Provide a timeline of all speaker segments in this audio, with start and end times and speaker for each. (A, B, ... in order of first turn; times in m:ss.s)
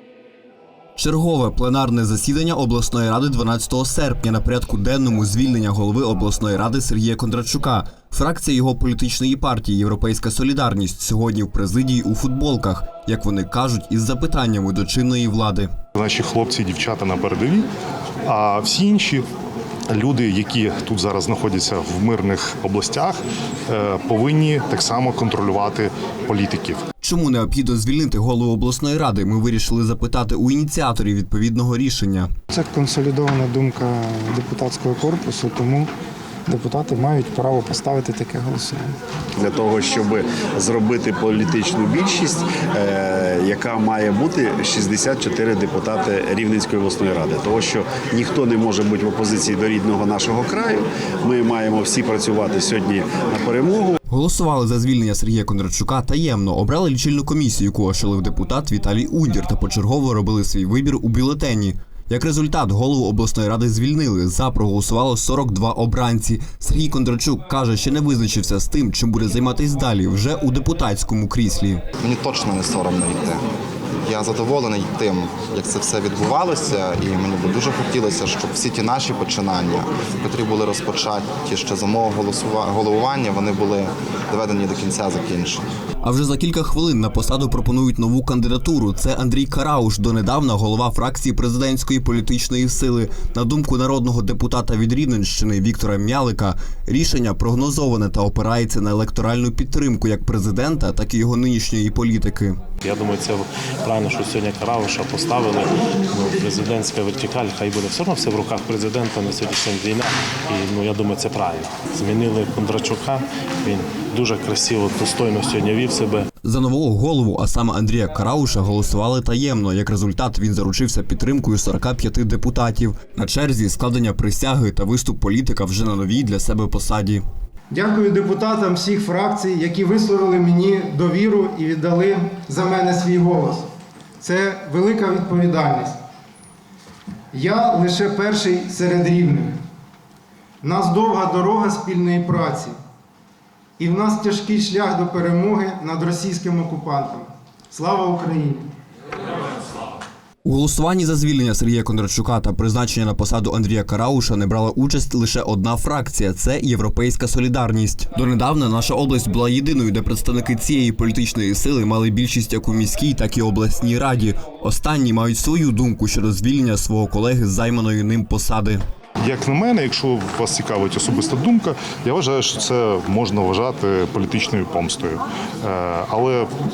0:01.0-0:15.7 A
0:15.9-0:17.7 B
0:18.2-0:19.2 B
0:19.9-0:26.8 B
0:27.0-0:32.3 A
0:32.5-0:35.9 C
0:36.5-0:39.0 C
0:39.4-0:54.0 D
0:54.1-1:11.8 A
1:12.0-1:13.4 E
1:14.0-1:25.6 E
1:26.0-1:42.6 A
1:42.8-1:56.3 F
1:56.4-2:07.2 A
2:07.7-2:13.7 C
2:14.2-2:16.0 C
2:17.3-2:19.5 C
2:20.6-2:22.8 C
2:23.8-2:28.6 C
2:30.4-2:48.8 A
2:49.2-2:56.5 B